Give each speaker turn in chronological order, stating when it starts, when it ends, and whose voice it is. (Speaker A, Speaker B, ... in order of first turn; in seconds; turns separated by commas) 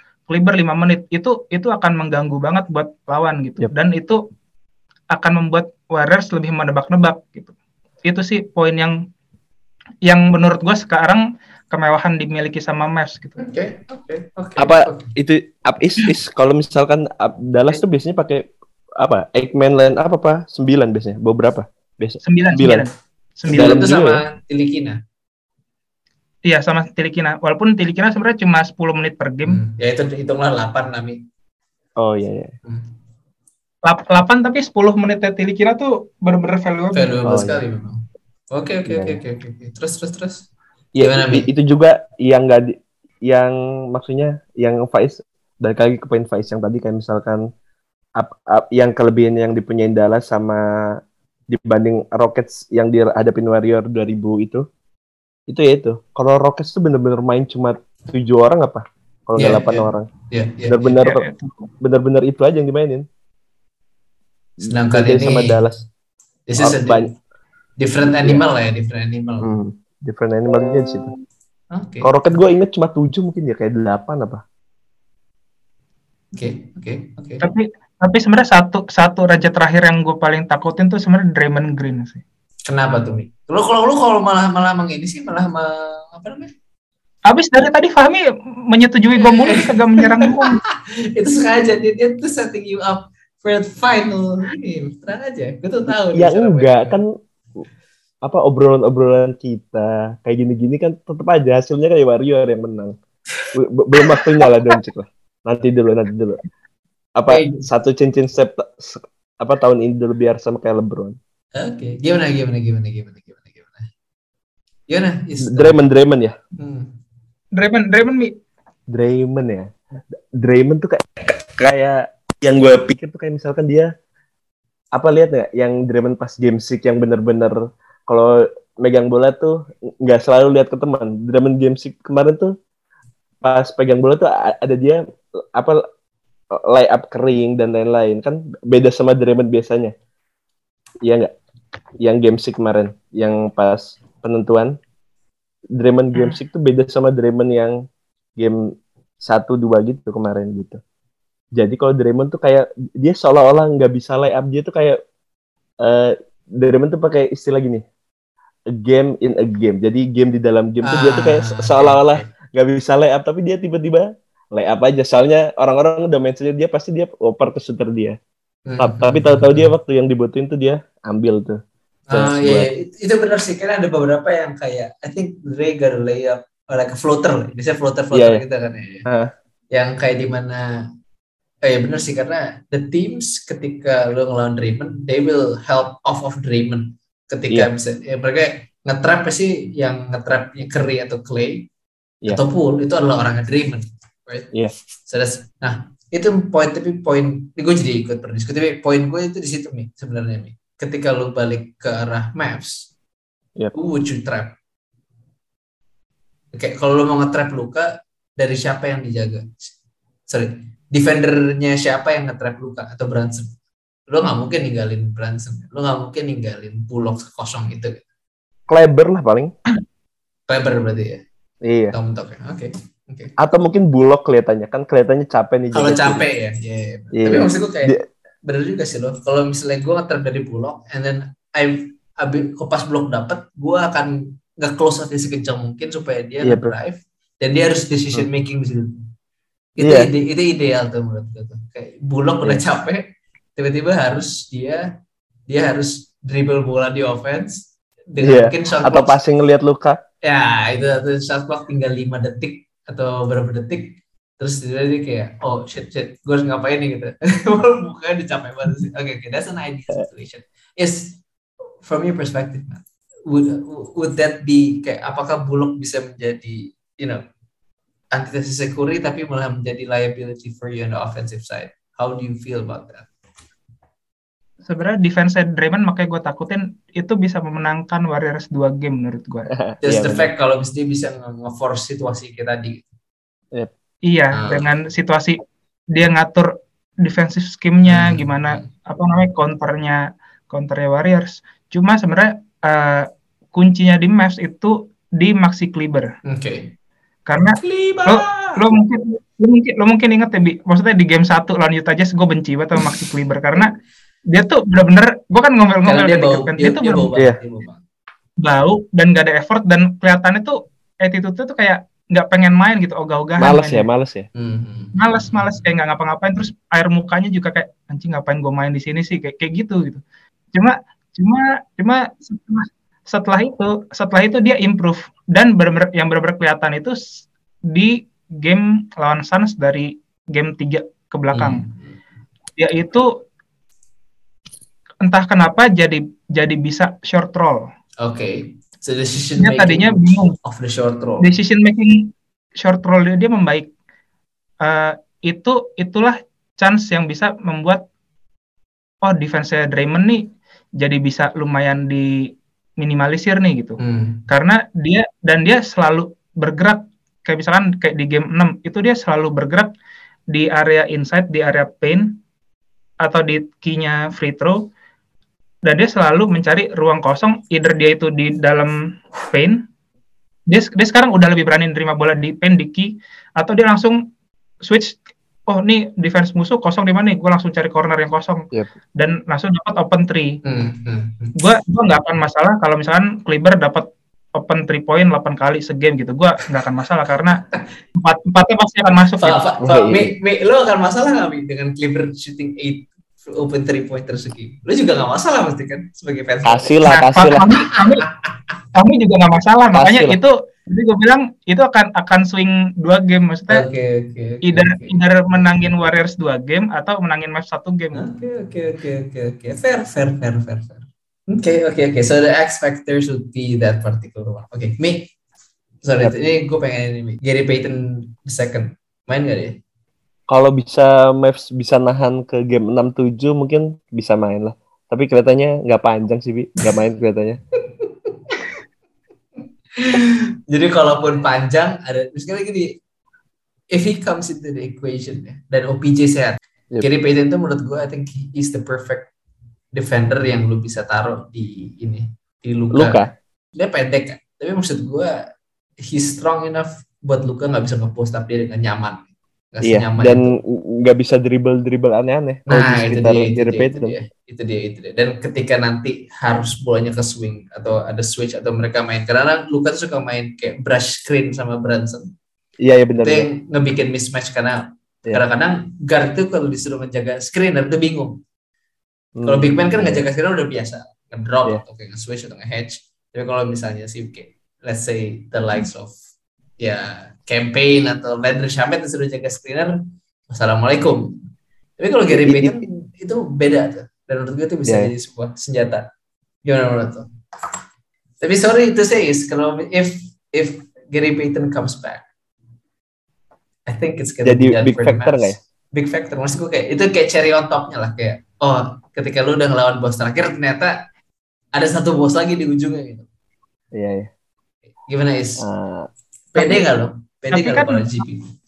Speaker A: 0.3-4.2, Speaker A: 5.1-7.5, Speaker A: 8.0-8.9, Speaker A: 10.0-13.4, Speaker B: 13.4-15.1, Speaker C: 14.6-18.5, Speaker C: 19.0-22.8, Speaker A: 22.2-23.8, Speaker C: 23.5-24.2, Speaker B: 23.5-25.0, Speaker A: 26.4-29.6, Speaker B: 29.5-31.2, Speaker C: 32.0-32.5, Speaker B: 32.6-32.9, Speaker A: 33.8-37.1, Speaker B: 36.9-40.5, Speaker C: 37.2-37.6, Speaker C: 38.9-39.2, Speaker C: 40.9-47.5, Speaker B: 41.0-41.5, Speaker C: 48.1-50.6, Speaker C: 51.5-54.6, Speaker C: 55.5-60.1, Speaker B: 59.4-61.0, Speaker C: 60.6-61.2, Speaker A: 61.0-61.7, Speaker C: 61.8-63.0, Speaker C: 64.6-65.8, Speaker B: 64.6-65.6, Speaker B: 66.5-67.1, Speaker C: 66.6-67.1, Speaker B: 67.8-69.5, Speaker C: 68.0-68.4, Speaker C: 69.4-71.1, Speaker B: 71.7-72.1, Speaker C: 72.0-74.4, Speaker B: 76.3-77.4, Speaker A: 77.4-82.2, Speaker B: 82.7-86.5, Speaker A: 87.3-90.6, Speaker B: 89.2-97.0, Speaker C: 96.1-97.1, Speaker C: 98.2-102.9, Speaker C: 103.5-106.4, Speaker C: 107.2-111.2, Speaker B: 107.3-107.7, Speaker B: 111.5-113.9, Speaker B: 114.9-115.8, Speaker C: 115.5-116.3, Speaker B: 116.6-116.9, Speaker A: 117.5-118.3, Speaker C: 118.9-123.9, Speaker C: 124.9-132.5, Speaker C: 133.4-135.0, Speaker C: 135.5-135.8, Speaker C: 136.5-139.9, Speaker C: 141.0-141.3, Speaker C: 142.0-144.8, Speaker C: 145.8-147.8, Speaker C: 148.4-148.7, Speaker C: 149.2-150.8, Speaker C: 151.5-155.0, Speaker C: 155.8-157.8, Speaker C: 158.7-168.2, Speaker B: 160.8-162.3, Speaker B: 168.7-169.7, Speaker C: 168.8-171.6, Speaker B: 172.1-179.1, Speaker C: 172.1-172.7, Speaker C: 178.1-178.4, Speaker C: 179.1-179.3, Speaker B: 179.7-180.8, Speaker B: 181.6-191.7, Speaker B: 192.3-194.5, Speaker B: 195.1-202.9, Speaker B: 203.7-204.5, Speaker B: 206.5-209.7, Speaker B: 210.3-213.6, Speaker B: 214.1-218.0, Speaker C: 218.7-219.5, Speaker B: 220.5-221.2, Speaker C: 221.6-221.9, Speaker B: 221.9-223.3, Speaker C: 223.4-226.3, Speaker B: 225.7-239.0, Speaker C: 227.1-228.0, Speaker C: 236.4-236.7, Speaker B: 239.8-244.9, Speaker C: 239.8-240.1, Speaker B: 245.5-249.2, Speaker C: 248.2-250.0, Speaker B: 250.2-261.2, Speaker B: 261.8-267.2, Speaker B: 268.1-273.1, Speaker A: 274.6-279.5, Speaker C: 279.5-280.3, Speaker B: 279.8-282.8, Speaker A: 284.1-296.1, Speaker B: 284.3-284.7, Speaker B: 287.9-288.6, Speaker B: 296.2-296.7, Speaker A: 297.3-303.7, Speaker B: 297.6-298.6, Speaker A: 304.3-307.1, Speaker B: 305.8-307.8, Speaker A: 308.4-313.9, Speaker C: 313.4-314.3, Speaker B: 314.3-314.9, Speaker A: 314.9-320.0, Speaker A: 320.5-331.6, Speaker B: 331.3-331.8, Speaker A: 332.6-333.1, Speaker A: 335.0-337.7, Speaker B: 338.0-341.4, Speaker A: 339.4-340.4, Speaker A: 341.2-343.7, Speaker A: 344.6-347.8, Speaker A: 349.0-359.7, Speaker B: 353.8-354.2, Speaker A: 360.3-362.2, Speaker A: 363.0-364.7, Speaker A: 365.6-368.7, Speaker A: 369.3-369.6, Speaker A: 370.5-374.1, Speaker A: 374.6-380.4, Speaker B: 380.4-381.3, Speaker A: 381.4-387.4, Speaker A: 387.9-389.4, Speaker B: 389.2-396.8, Speaker C: 389.6-390.1, Speaker C: 396.4-397.5, Speaker A: 396.9-398.1, Speaker A: 398.7-403.6, Speaker C: 399.7-400.2, Speaker B: 403.5-404.9, Speaker A: 404.4-408.0, Speaker B: 407.9-415.1, Speaker B: 415.8-419.6, Speaker C: 420.3-427.4, Speaker B: 429.8-432.8, Speaker B: 433.7-439.1, Speaker B: 439.7-445.2, Speaker C: 442.7-443.1, Speaker B: 445.8-450.3, Speaker C: 449.6-453.9, Speaker B: 452.5-462.1, Speaker C: 462.6-463.3, Speaker B: 463.0-468.2, Speaker C: 469.1-470.0, Speaker B: 469.2-475.9, Speaker B: 476.6-479.8, Speaker B: 480.3-481.3, Speaker B: 481.8-485.9, Speaker C: 482.1-482.5, Speaker C: 484.6-484.9, Speaker B: 486.4-487.1, Speaker B: 488.2-492.0, Speaker B: 493.7-500.8, Speaker C: 494.2-495.4, Speaker B: 501.5-503.1, Speaker C: 503.7-504.1, Speaker B: 504.9-505.5, Speaker C: 505.4-506.6, Speaker B: 506.3-508.3, Speaker A: 507.3-508.0